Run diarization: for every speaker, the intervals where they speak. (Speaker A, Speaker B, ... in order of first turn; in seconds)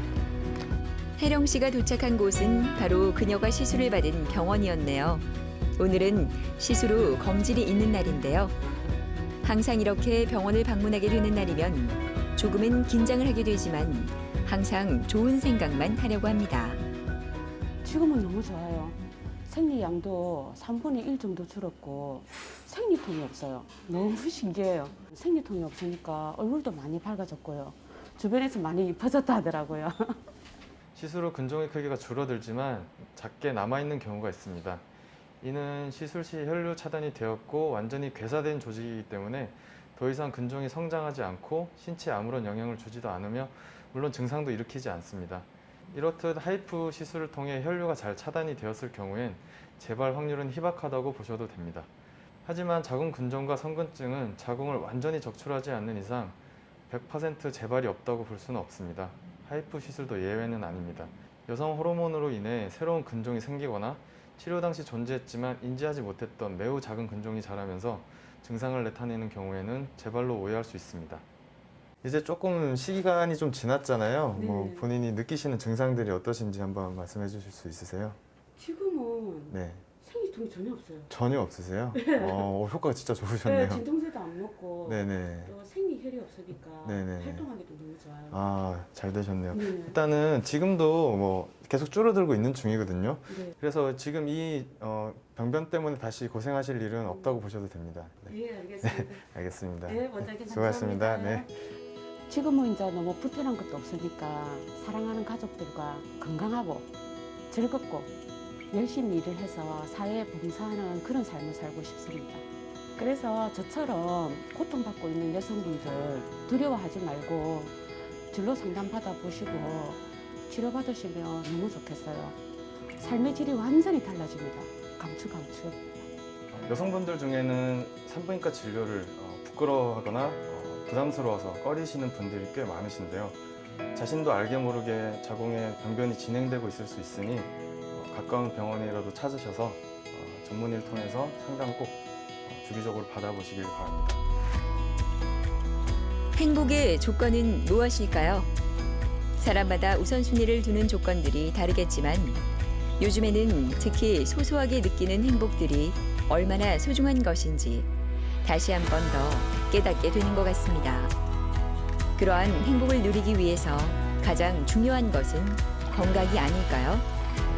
Speaker A: 1.2-5.2, 5.8-8.5, 9.4-16.8, 146.3-148.5, 149.4-152.4, 153.0-157.9, 158.4-161.1, 162.2-167.1
Speaker B: 17.8-30.2, 74.3-74.8, 78.5-81.1, 81.9-82.5, 83.4-88.4, 89.5-90.0, 93.3-93.5, 97.0-97.3, 98.3-99.2, 99.8-101.5, 102.3-106.9, 107.5-108.1, 108.7-112.4, 113.0-122.4, 123.0-126.0
Speaker C: 30.9-34.8, 35.4-51.9, 52.4-56.4, 56.9-71.2, 72.0-78.2, 79.5-79.8, 81.1-83.8, 84.8-85.5, 86.8-87.5, 88.3-101.5, 126.5-133.4, 133.9-144.2